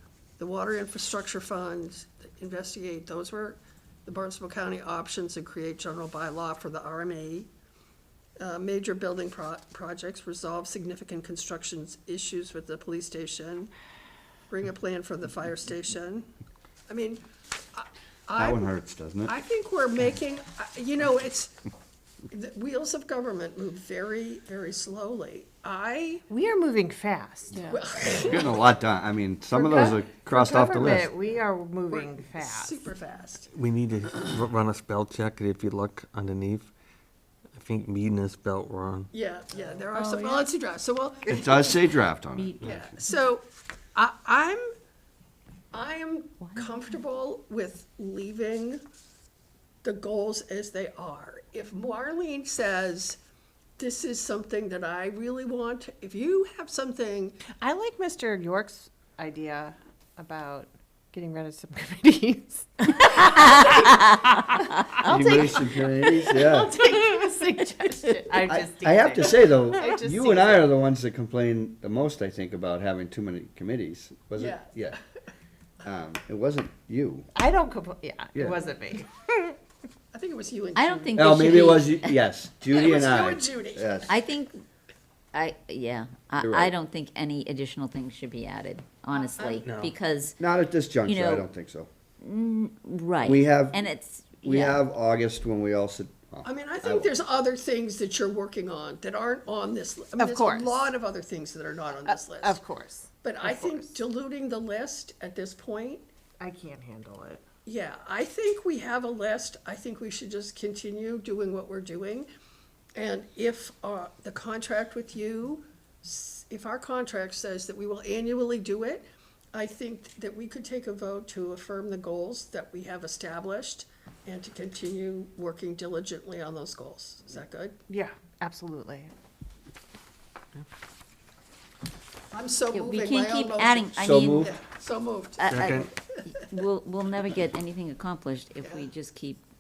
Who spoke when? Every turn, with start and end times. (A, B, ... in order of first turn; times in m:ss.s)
0:00.4-0:07.5 A
0:08.4-0:13.7 A
0:14.5-0:16.3 A
0:16.9-0:17.2 A
0:17.7-0:18.7 A
0:18.4-0:19.3 B
0:19.3-0:21.6 A
0:22.3-0:26.3 A
0:26.3-0:27.8 C
0:27.5-0:28.7 A
0:28.2-0:31.1 B
0:29.5-0:32.8 C
0:31.9-0:33.5 A
0:33.5-0:36.7 D
0:37.5-0:39.1 D
0:39.1-0:41.9 A
0:39.6-0:40.5 C
0:41.3-0:42.9 B
0:42.4-0:42.7 E
0:42.6-0:44.7 A
0:45.7-0:48.8 A
0:49.8-0:53.2 A
0:53.8-0:57.4 A
0:57.5-1:10.7 C
1:05.0-1:06.8 B
1:08.4-1:15.0 B
1:14.4-1:14.7 A
1:15.8-1:17.3 B
1:17.4-1:19.6 C
1:20.1-1:21.6 A
1:20.8-1:22.1 E
1:21.2-1:24.2 B
1:22.7-1:24.2 A
1:24.1-1:24.6 E
1:25.3-1:30.4 E
1:26.4-1:26.7 B
1:29.1-1:29.7 A
1:29.6-1:29.9 D
1:30.4-1:31.9 B
1:31.1-1:31.5 E
1:32.2-1:34.8 E
1:33.2-1:33.8 B
1:34.4-1:37.1 B
1:36.4-1:42.6 A
1:40.2-1:40.9 C
1:42.0-1:44.0 C
1:43.2-1:46.1 A
1:46.4-1:47.4 C
1:47.7-1:52.3 A
1:53.0-2:07.8 A
2:07.9-2:09.1 C
2:12.3-2:15.5 A
2:12.7-2:14.5 E
2:14.0-2:14.6 B
2:15.4-2:19.4 E
2:15.5-2:15.9 D
2:18.6-2:18.9 A